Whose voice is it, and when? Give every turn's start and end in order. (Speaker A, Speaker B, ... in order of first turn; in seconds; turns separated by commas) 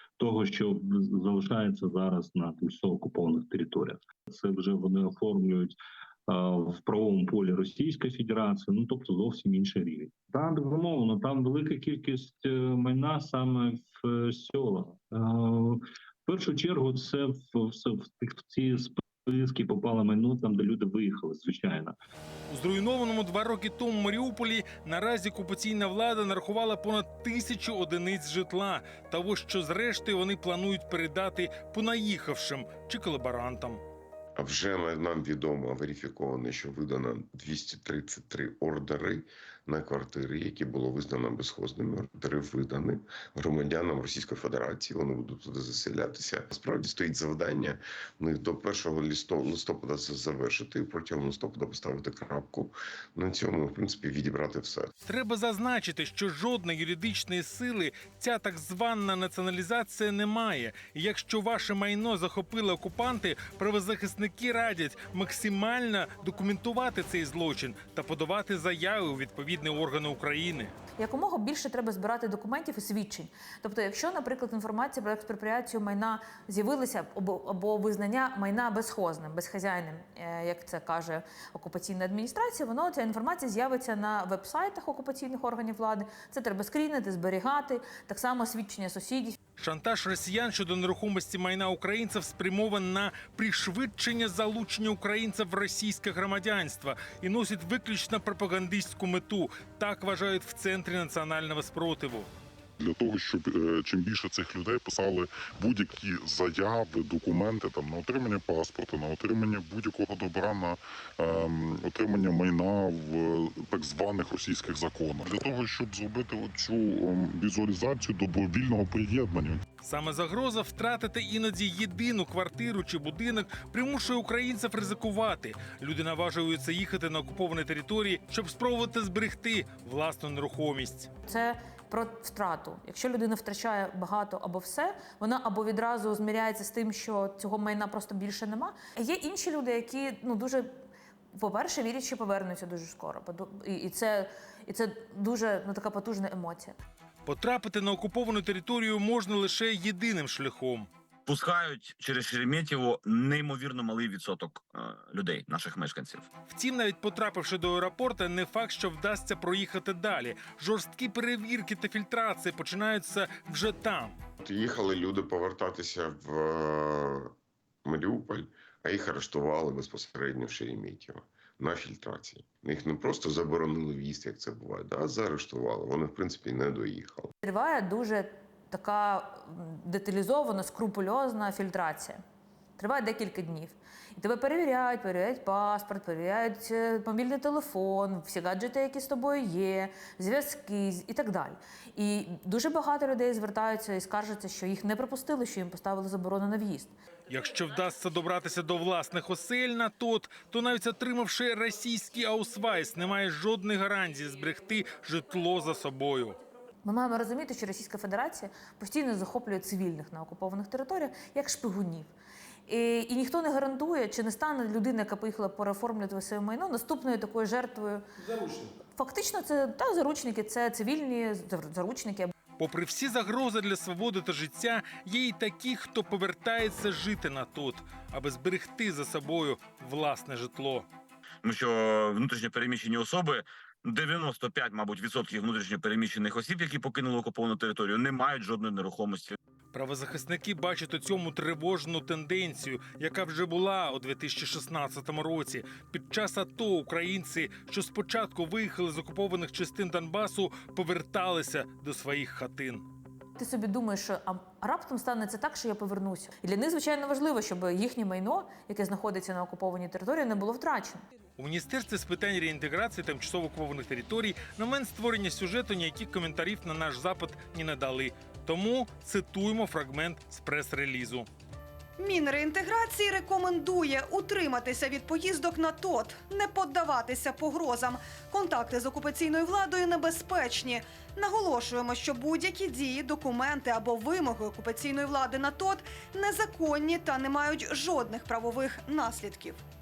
Speaker A: 0.2-21.9, Speaker B: 22.5-33.8, Speaker C: 34.4-54.9, Speaker B: 55.0-70.7, Speaker D: 71.0-89.3, Speaker B: 89.6-102.3, Speaker E: 102.8-119.6, Speaker B: 119.8-131.1, Speaker D: 131.3-140.7, Speaker D: 141.3-146.8, Speaker B: 147.2-150.9, Speaker F: 151.3-156.3, Speaker B: 156.5-164.1, Speaker C: 164.4-167.3, Speaker C: 167.8-177.3, Speaker D: 177.4-182.2, Speaker D: 182.8-196.9, Speaker B: 197.3-206.4, Speaker D: 206.8-212.1, Speaker D: 212.7-218.0, Speaker B: 218.2-218.7, Speaker D: 218.9-222.3, Speaker B: 222.6-230.9, Speaker F: 231.4-239.3, Speaker B: 239.7-252.8, Speaker D: 253.3-261.0, Speaker B: 261.4-271.3, Speaker G: 272.0-289.6